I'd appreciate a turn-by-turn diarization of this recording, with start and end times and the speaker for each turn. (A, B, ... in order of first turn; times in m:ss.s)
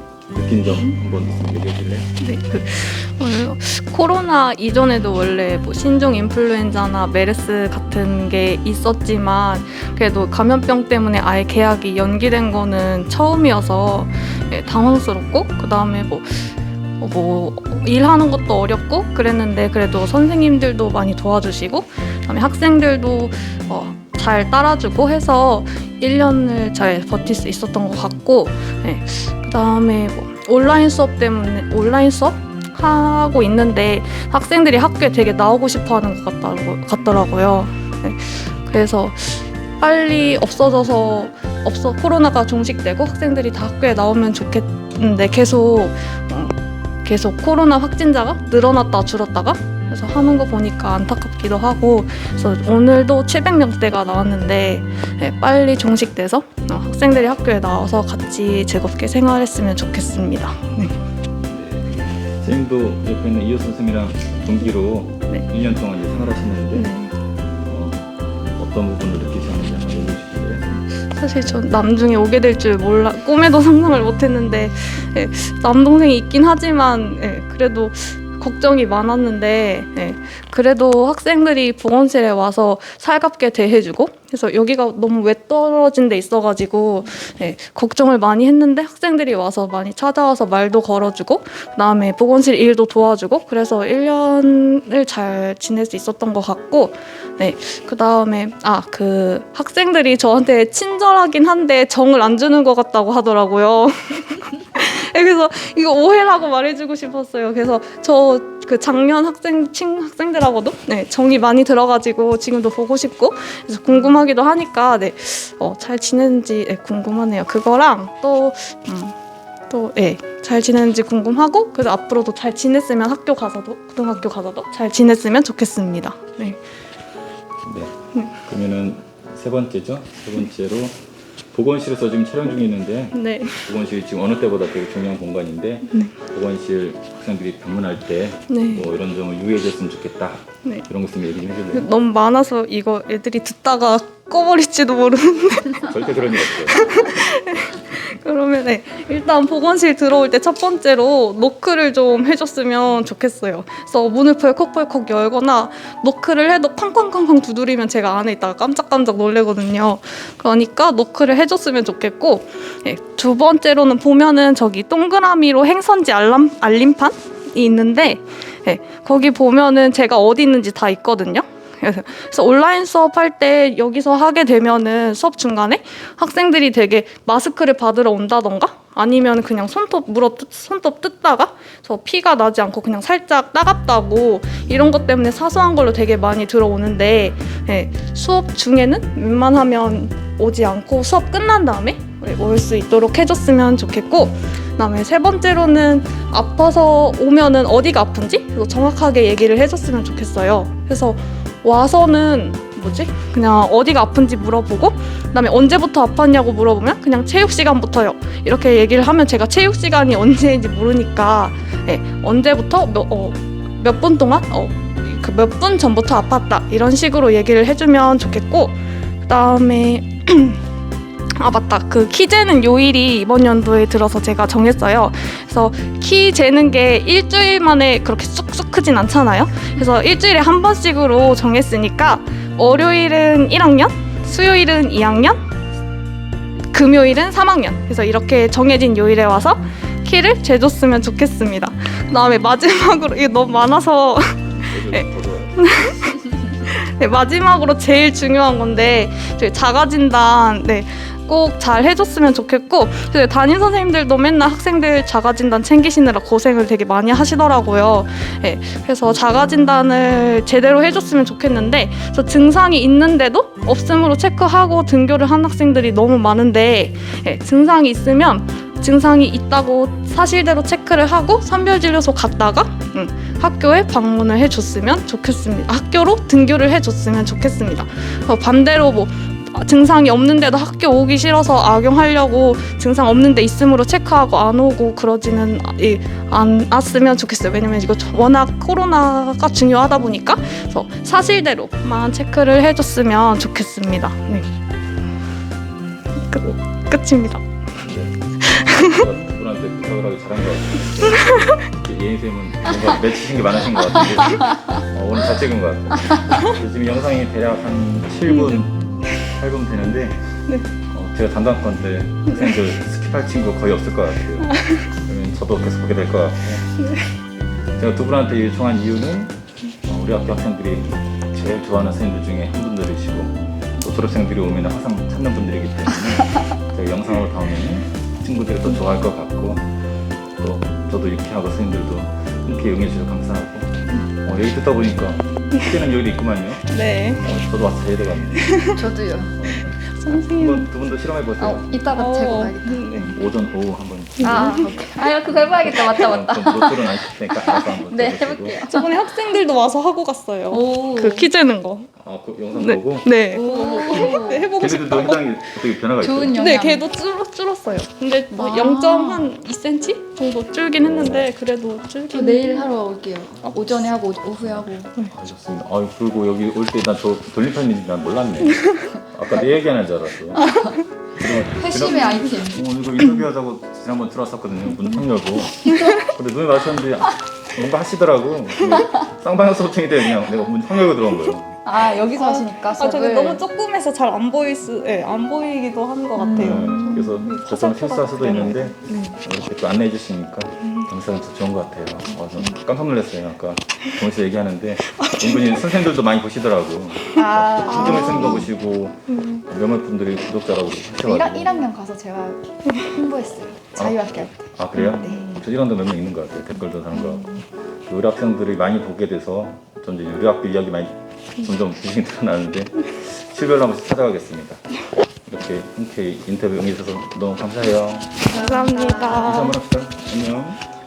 0:00.3-0:02.1 A
0:02.2-1:00.9 B
1:01.5-1:06.9 A
1:06.7-1:07.1 B
1:07.6-1:10.8 A
1:11.0-1:59.2 B
1:59.7-2:06.6 B
2:07.6-2:07.9 A
2:08.4-2:11.0 A
2:11.5-2:21.8 A
2:13.1-2:13.6 B
2:18.5-2:18.9 B
2:21.7-3:40.6 B
2:25.8-2:26.8 A
3:41.3-3:55.5 B
3:56.7-4:54.5 B
4:04.6-4:05.6 A
4:56.2-4:57.5 B
4:57.8-5:10.2 A
4:58.4-4:59.0 B
5:01.2-5:01.5 B
5:06.3-5:06.5 B
5:08.3-5:09.2 B
5:10.9-5:16.6 A
5:12.3-5:12.5 B
5:14.4-5:14.8 B
5:16.8-5:17.1 B
5:17.8-5:19.3 A
5:19.8-5:29.7 A
5:30.4-5:36.6 A
5:36.7-5:37.2 B
5:37.2-5:38.6 A
5:38.4-5:38.7 B
5:38.7-5:39.4 C
5:39.4-5:41.7 A
5:39.7-5:40.7 B
5:41.4-5:42.9 C
5:41.9-5:43.2 B
5:43.0-5:44.6 A
5:44.2-5:44.7 B
5:44.2-5:48.9 C
5:45.2-5:48.6 A
5:48.6-5:51.9 B
5:50.5-5:51.3 C
5:52.0-5:53.1 A
5:52.5-5:55.4 B
5:53.3-5:54.5 C
5:54.6-5:56.4 A
5:56.0-5:56.8 C
5:56.3-6:02.7 B
5:58.3-5:59.3 C
6:00.8-6:01.3 A
6:02.1-6:04.9 C
6:04.4-6:10.6 A
6:11.2-6:21.6 A
6:11.3-6:12.7 C
6:15.6-6:16.0 C
6:21.6-6:23.4 C
6:22.0-6:29.2 B
6:26.2-6:27.1 C
6:26.4-6:41.5 A
6:30.6-6:30.9 B
6:35.0-6:35.6 B
6:37.1-6:38.5 C
6:37.7-6:38.5 B
6:39.1-6:39.4 B
6:41.0-6:45.3 C
6:43.8-6:47.3 A
6:44.8-6:45.4 B
6:46.9-6:47.4 B
6:47.9-6:54.6 A
6:55.3-6:58.2 A
6:58.2-6:59.4 C
6:58.3-6:59.6 B
6:59.1-7:00.6 A